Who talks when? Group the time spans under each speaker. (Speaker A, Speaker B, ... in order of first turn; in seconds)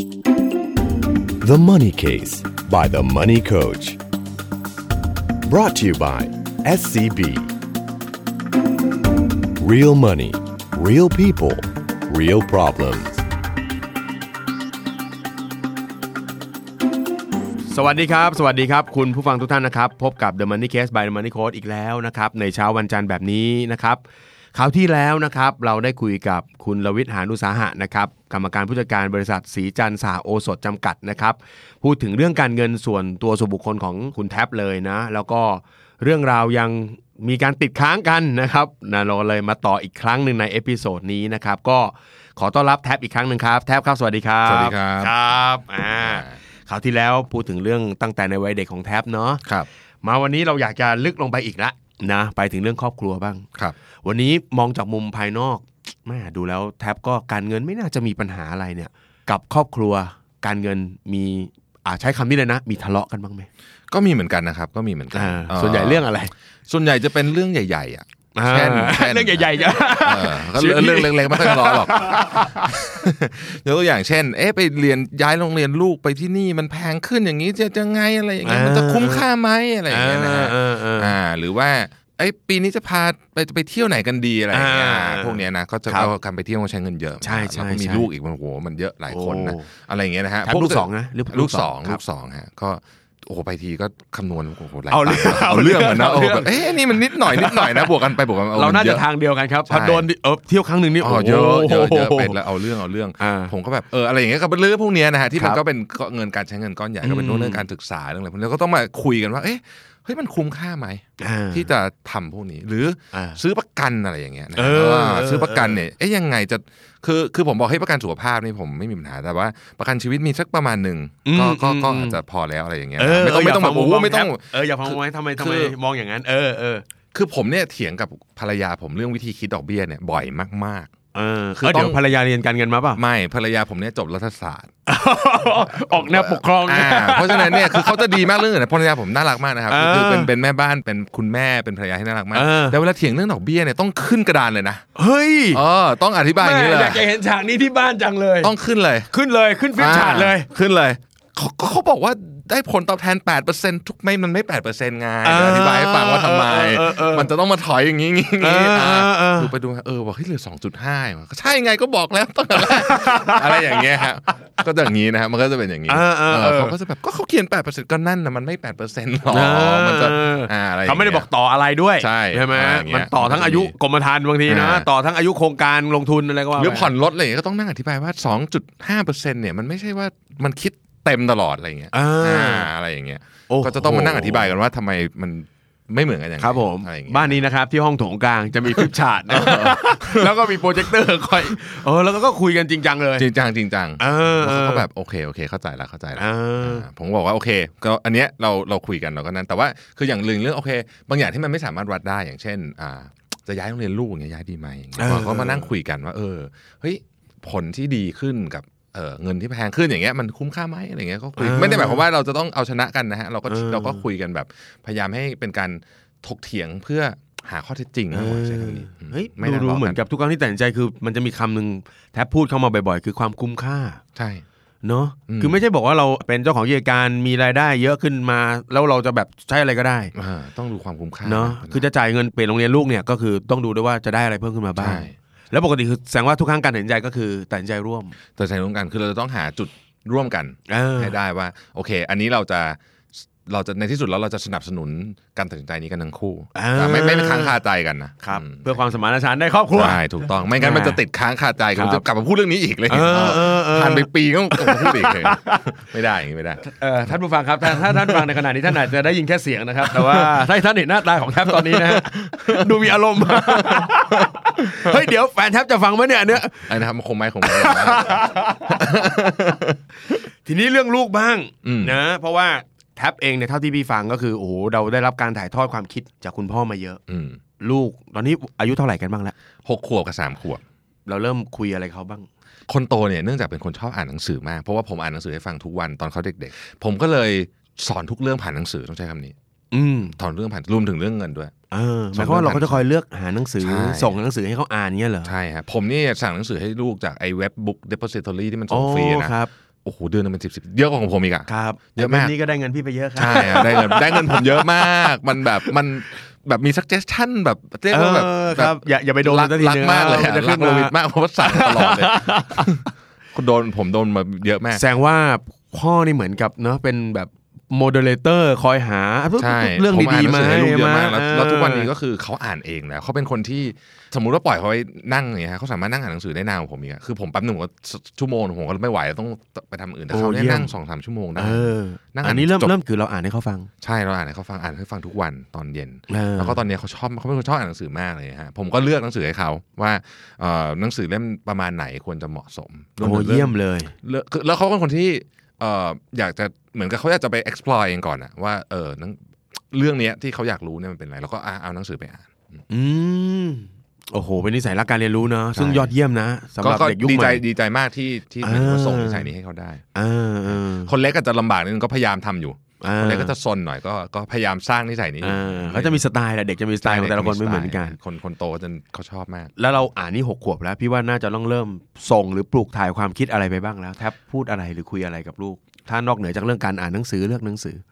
Speaker A: 1.4-4.0, 5.4-7.5, 9.6-13.2
Speaker B: 17.7-24.0, 24.5-49.4, 50.0-53.5, 54.0-63.5, 65.1-66.3, 68.3-72.7, 78.4-79.2, 79.9-81.1, 84.5-86.1, 87.2-88.1, 89.1-89.7, 90.4-92.0, 94.9-98.0, 98.5-102.4, 103.2-103.5, 105.3-105.6, 107.0-107.7, 111.2-111.7, 113.1-113.4, 114.5-115.8, 121.2-122.2, 123.0-126.8, 131.1-133.0, 134.8-138.2, 139.7-140.3, 142.3-142.8, 144.9-145.6, 146.3-148.5, 149.1-150.5, 155.2-157.3, 158.4-159.5, 162.5-164.0, 165.9-166.8, 169.3-176.9, 181.9-182.7, 183.5-184.5, 186.4-193.3, 194.0-194.9, 196.2-196.8, 205.0-205.7, 211.3-212.0, 213.5-214.0, 218.1-224.0, 224.8-230.1, 231.2-238.1, 240.7-241.2, 246.5-247.6, 248.2-251.0, 251.7-252.0, 252.9-255.8, 256.6-266.7, 267.4-268.9, 270.4-277.0, 277.6-279.3, 281.1-282.3, 289.7-290.2, 291.7-295.3, 298.7-299.5, 301.5-305.1, 307.9-312.8, 314.7-321.9, 330.1-330.7, 331.4-333.7, 336.1-336.6, 343.0-343.9, 352.7-357.4, 358.4-359.3, 359.9-360.9, 362.8-363.3, 365.2-367.9, 369.6-377.8
Speaker C: 44.4-45.1, 46.0-46.4, 63.9-66.1, 66.7-99.0, 99.7-100.1, 101.0-125.8, 127.1-130.9, 131.5-132.0, 132.9-134.7, 135.7-144.8, 145.5-147.1, 148.4-149.1, 149.8-171.3, 172.0-173.7, 174.4-174.9, 176.6-187.4, 188.7-190.8, 193.2-220.0, 224.2-224.4, 225.3-225.6, 230.1-231.8, 234.8-235.1, 238.3-248.8, 249.7-256.6, 257.7-258.3, 259.8-260.4, 261.4-264.3, 264.8-265.1, 266.3-269.8, 271.6-272.0, 277.1-277.4, 279.6-280.6, 282.7-289.3, 290.2-291.5, 292.1-292.8, 293.6-294.1, 295.2-299.3, 299.8-302.3, 303.2-312.8, 313.3-314.8, 319.4-332.7, 333.8-349.2, 349.7-352.3, 355.5-355.9, 356.6-359.8, 360.5-366.0, 366.8-369.5